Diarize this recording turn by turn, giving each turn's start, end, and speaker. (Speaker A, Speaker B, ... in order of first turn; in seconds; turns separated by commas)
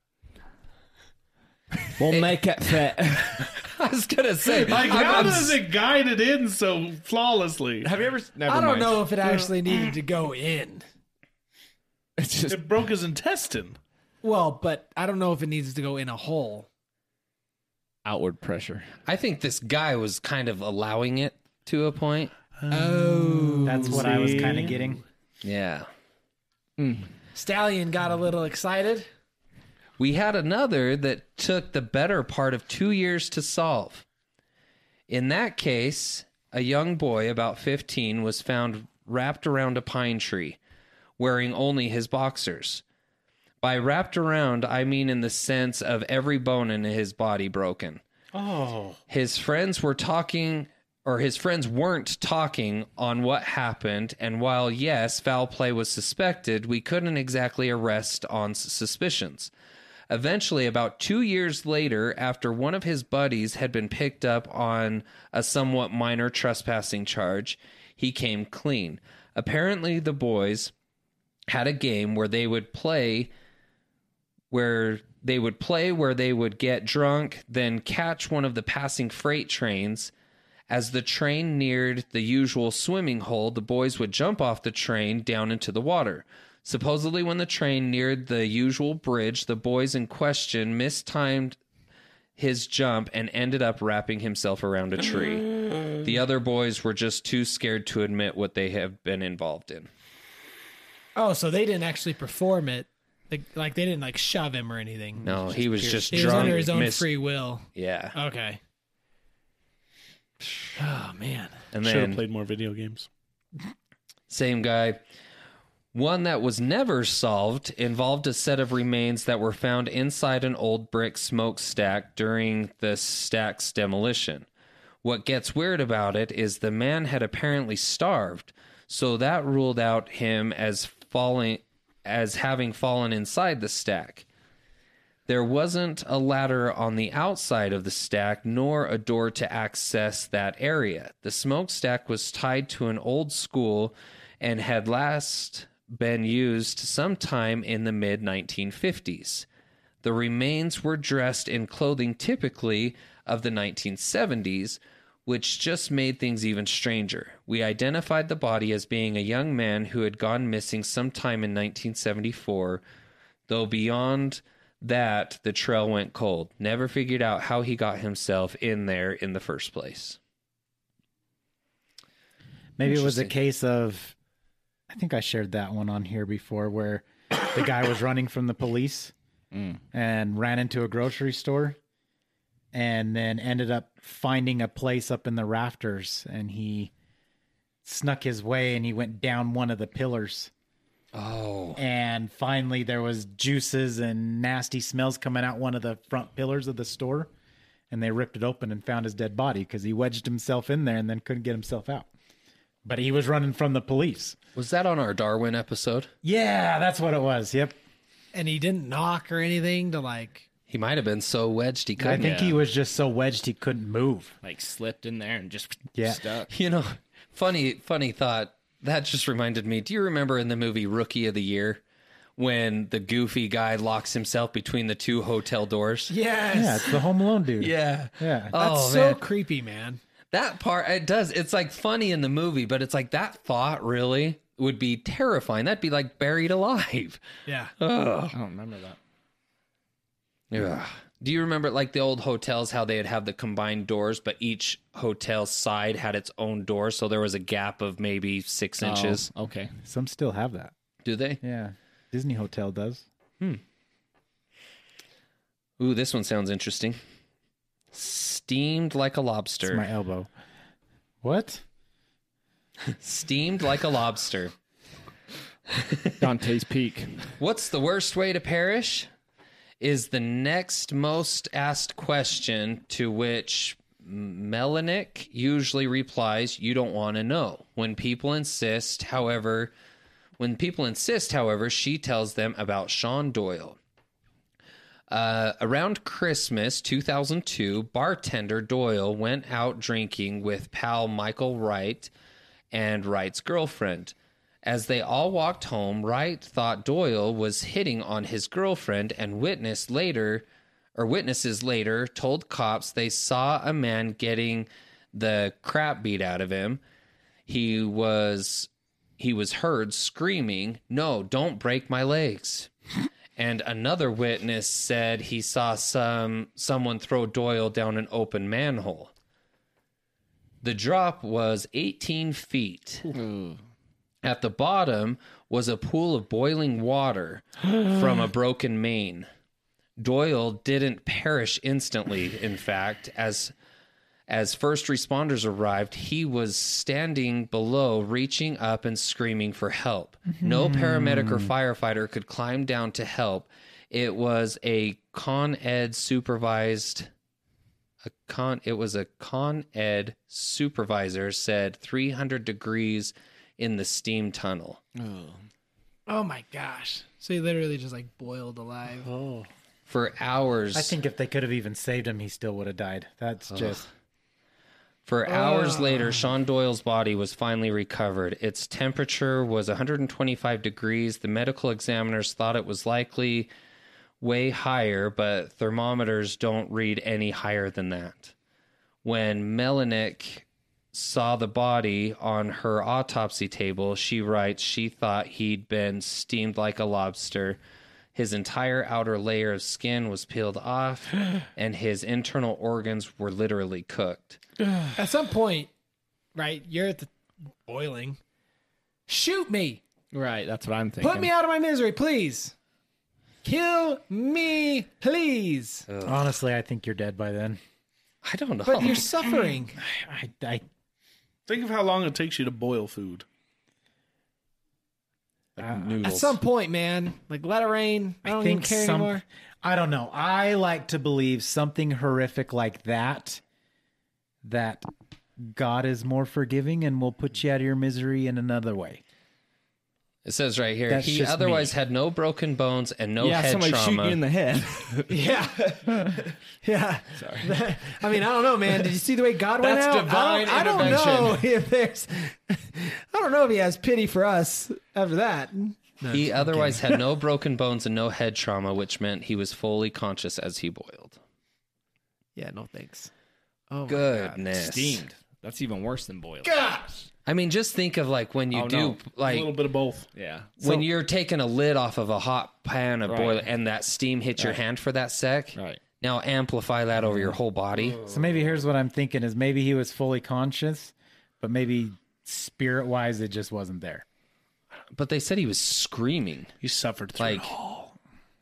Speaker A: 2.0-3.5, Speaker B: 2.1-2.4, Speaker B: 3.3-5.6, Speaker C: 4.5-7.9, Speaker A: 4.9-5.2, Speaker A: 7.8-9.1, Speaker D: 8.5-10.9, Speaker A: 12.2-12.6, Speaker C: 12.5-13.8, Speaker D: 14.2-16.7, Speaker A: 18.0-18.9, Speaker B: 19.1-22.3, Speaker C: 22.6-24.8, Speaker D: 22.7-24.1, Speaker E: 23.7-25.0, Speaker B: 25.4-25.9, Speaker A: 26.8-27.1, Speaker D: 27.4-29.1, Speaker B: 30.0-34.0, Speaker B: 35.1-40.6, Speaker B: 41.2-42.8, Speaker B: 43.6-48.0, Speaker E: 48.3-49.0, Speaker B: 49.1-59.5, Speaker B: 60.1-70.7, Speaker B: 71.5-73.3, Speaker B: 74.5-80.1, Speaker B: 80.7-91.6, Speaker B: 92.4-99.9, Speaker D: 101.2-105.5, Speaker B: 105.2-107.1, Speaker A: 105.8-106.1, Speaker D: 106.1-108.6, Speaker B: 107.8-108.2, Speaker D: 110.8-111.6, Speaker B: 111.7-112.2, Speaker C: 111.8-113.1, Speaker B: 114.3-115.0, Speaker B: 115.9-124.5, Speaker B: 125.0-134.2, Speaker B: 135.3-149.5, Speaker B: 150.0-162.8, Speaker B: 163.5-170.2, Speaker E: 172.8-174.2, Speaker B: 172.9-173.3, Speaker E: 174.9-179.1, Speaker A: 179.5-179.8, Speaker E: 179.9-181.8, Speaker E: 182.7-186.9, Speaker E: 187.8-190.5, Speaker B: 191.1-191.8, Speaker E: 191.8-197.3, Speaker E: 197.9-202.1, Speaker E: 202.8-204.4, Speaker B: 204.6-206.1, Speaker E: 206.2-207.8, Speaker D: 208.3-210.5, Speaker B: 210.7-212.3, Speaker E: 212.0-214.4, Speaker A: 212.1-212.6, Speaker A: 214.4-216.5, Speaker E: 215.9-216.2, Speaker B: 216.5-221.8, Speaker B: 222.4-226.1, Speaker D: 226.1-227.0, Speaker E: 226.5-228.6, Speaker B: 227.6-229.2, Speaker D: 228.6-230.0, Speaker B: 230.3-237.2, Speaker D: 237.5-237.7, Speaker B: 237.8-238.3, Speaker A: 238.3-239.0, Speaker B: 240.5-249.3, Speaker A: 248.8-249.7, Speaker E: 249.8-250.7, Speaker B: 251.0-251.4, Speaker E: 251.4-253.1, Speaker B: 255.8-257.0, Speaker B: 257.9-259.9, Speaker E: 259.7-260.3, Speaker E: 261.2-261.6, Speaker B: 262.9-264.5, Speaker B: 265.8-266.1, Speaker A: 266.2-267.3, Speaker B: 267.4-269.1, Speaker B: 269.8-279.7, Speaker B: 280.4-283.8, Speaker B: 285.1-292.1, Speaker B: 292.7-306.8, Speaker B: 307.5-312.7, Speaker B: 313.4-319.1, Speaker B: 320.6-323.1, Speaker A: 323.1-323.6, Speaker B: 324.2-329.3, Speaker B: 330.0-333.5, Speaker B: 334.3-347.1, Speaker E: 340.3-341.5, Speaker B: 348.2-354.8, Speaker A: 355.0-355.4, Speaker D: 356.1-359.1, Speaker E: 359.1-359.5, Speaker B: 359.9-361.0, Speaker E: 360.7-363.8, Speaker B: 363.5-363.8, Speaker B: 365.1-373.5, Speaker D: 365.3-366.3, Speaker B: 374.2-378.3, Speaker B: 379.0-387.6, Speaker B: 388.1-394.4, Speaker D: 395.0-395.7, Speaker D: 396.4-397.1, Speaker D: 397.7-398.2, Speaker D: 399.1-399.8, Speaker A: 400.1-401.3, Speaker D: 401.0-402.6, Speaker D: 403.4-405.9, Speaker B: 405.9-406.2, Speaker E: 406.1-407.6, Speaker B: 408.2-409.2, Speaker D: 408.7-409.8, Speaker E: 409.8-410.6, Speaker C: 411.5-413.3, Speaker B: 415.6-416.3, Speaker D: 416.0-419.2, Speaker E: 418.2-423.4, Speaker E: 424.4-424.9, Speaker E: 425.4-429.0, Speaker B: 430.2-434.2, Speaker E: 430.9-431.7, Speaker A: 433.2-435.3, Speaker D: 435.1-447.0, Speaker A: 435.9-436.1, Speaker A: 437.1-437.5, Speaker A: 439.6-441.4, Speaker B: 446.1-451.2, Speaker D: 452.4-453.1, Speaker D: 453.7-454.4, Speaker B: 453.9-455.0, Speaker A: 454.5-456.5, Speaker D: 456.4-457.1, Speaker B: 457.3-459.6, Speaker A: 458.5-459.0, Speaker C: 459.2-460.1, Speaker A: 460.1-460.8, Speaker B: 460.6-468.0, Speaker A: 463.1-463.5, Speaker A: 465.6-465.8, Speaker A: 467.1-467.4, Speaker E: 468.1-474.1, Speaker B: 474.9-476.5, Speaker C: 476.6-477.9, Speaker B: 477.2-477.5